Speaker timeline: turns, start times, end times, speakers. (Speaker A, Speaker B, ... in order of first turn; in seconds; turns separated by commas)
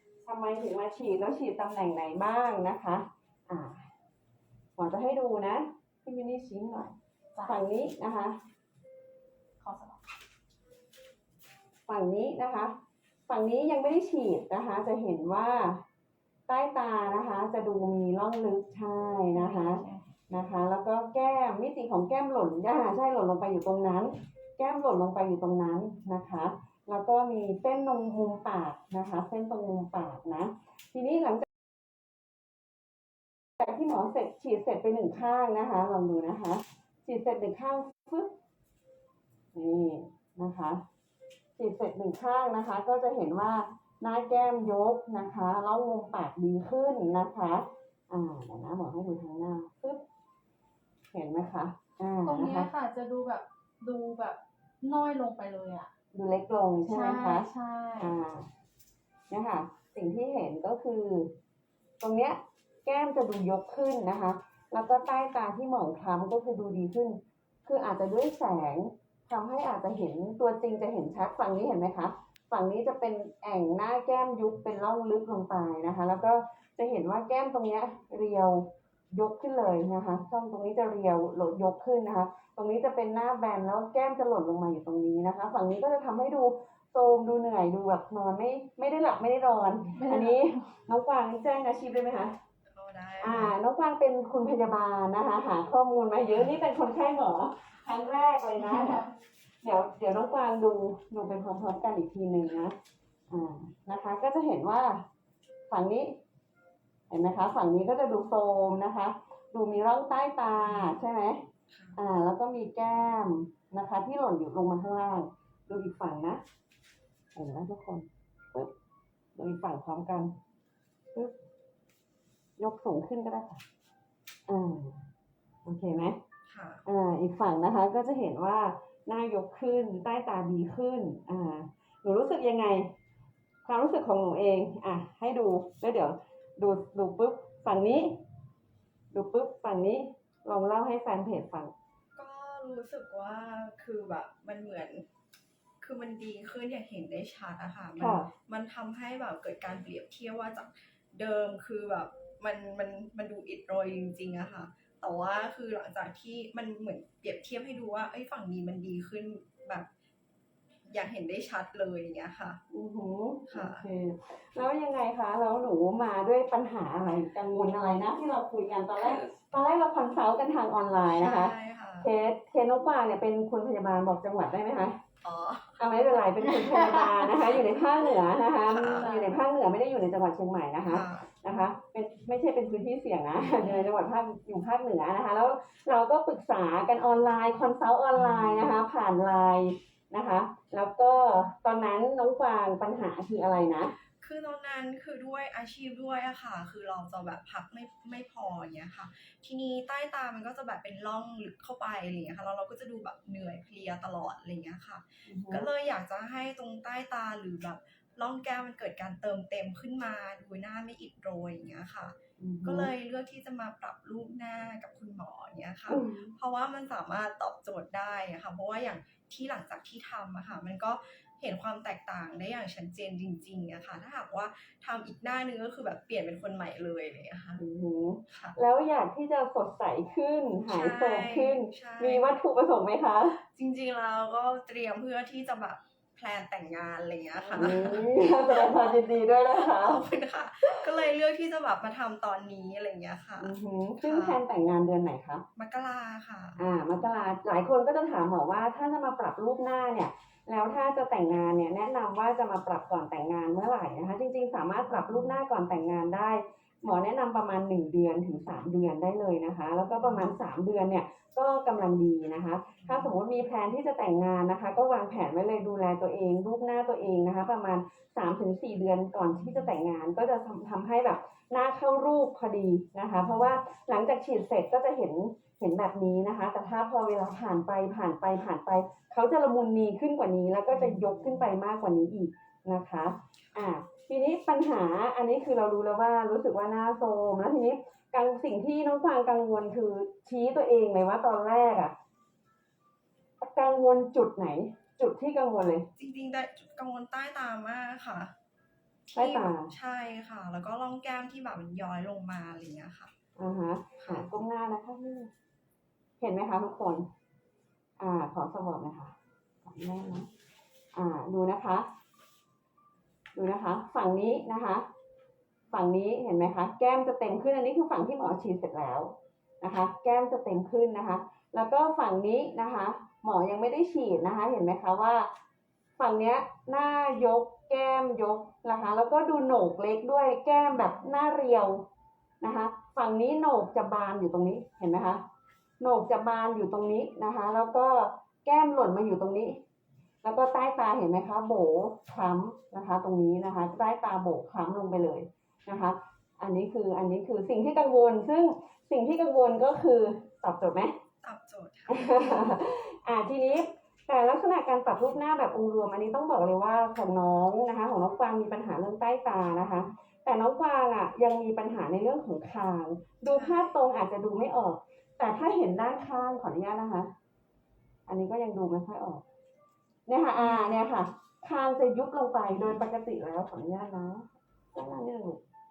Speaker A: 0.2-3.9, Speaker A: 4.8-8.4, Speaker B: 9.6-10.0, Speaker A: 11.9-12.7, Speaker A: 13.3-15.8, Speaker A: 16.5-31.5, Speaker B: 19.3-20.0, Speaker A: 33.6-38.3, Speaker A: 39.5-40.8, Speaker A: 41.6-50.0, Speaker A: 51.1-52.7, Speaker B: 52.2-55.9, Speaker A: 56.1-58.5, Speaker B: 56.9-58.2, Speaker A: 59.3-61.3, Speaker A: 62.0-92.3, Speaker B: 89.9-90.5, Speaker C: 92.7-93.5, Speaker A: 93.2-99.1, Speaker B: 98.6-99.1, Speaker A: 99.6-102.8, Speaker A: 103.3-105.0, Speaker A: 105.7-106.1, Speaker A: 107.1-111.4, Speaker C: 111.7-112.0, Speaker A: 112.0-116.4, Speaker A: 117.3-118.7, Speaker A: 119.3-120.3, Speaker A: 122.6-123.6, Speaker A: 124.5-125.1, Speaker A: 125.7-126.2, Speaker C: 126.5-126.8, Speaker A: 126.8-132.9, Speaker A: 133.7-138.1, Speaker A: 139.1-141.7, Speaker C: 142.2-145.1, Speaker C: 145.8-159.9, Speaker A: 148.0-148.3, Speaker C: 160.9-162.6, Speaker A: 162.7-175.0, Speaker C: 163.5-163.8, Speaker C: 169.0-169.2, Speaker C: 171.0-172.1, Speaker C: 175.2-176.0, Speaker A: 175.8-193.9, Speaker B: 176.6-177.3, Speaker C: 178.5-179.2, Speaker B: 179.1-179.4, Speaker C: 180.9-181.3, Speaker C: 183.6-183.9, Speaker C: 194.2-227.6, Speaker A: 205.3-205.7, Speaker A: 212.4-212.9, Speaker A: 215.9-216.3, Speaker A: 227.6-233.4, Speaker C: 228.3-228.6, Speaker C: 230.7-232.4, Speaker C: 233.4-244.4, Speaker A: 237.5-240.0, Speaker A: 243.4-245.4, Speaker C: 245.6-246.6, Speaker A: 246.6-291.9, Speaker C: 259.9-260.3, Speaker C: 280.7-281.1, Speaker A: 293.4-295.9, Speaker C: 296.0-298.3, Speaker C: 299.1-303.1, Speaker A: 299.1-299.7, Speaker A: 303.4-305.3, Speaker C: 304.0-304.3, Speaker A: 306.2-307.1, Speaker A: 308.0-310.3, Speaker A: 310.9-311.9, Speaker A: 313.4-314.9, Speaker A: 315.7-325.3, Speaker A: 326.0-331.8, Speaker A: 332.4-335.2, Speaker A: 335.8-339.6, Speaker A: 340.2-350.9, Speaker C: 351.2-352.6, Speaker A: 351.9-367.1, Speaker C: 363.3-363.7, Speaker A: 368.1-369.2, Speaker A: 370.1-375.4, Speaker C: 370.4-370.7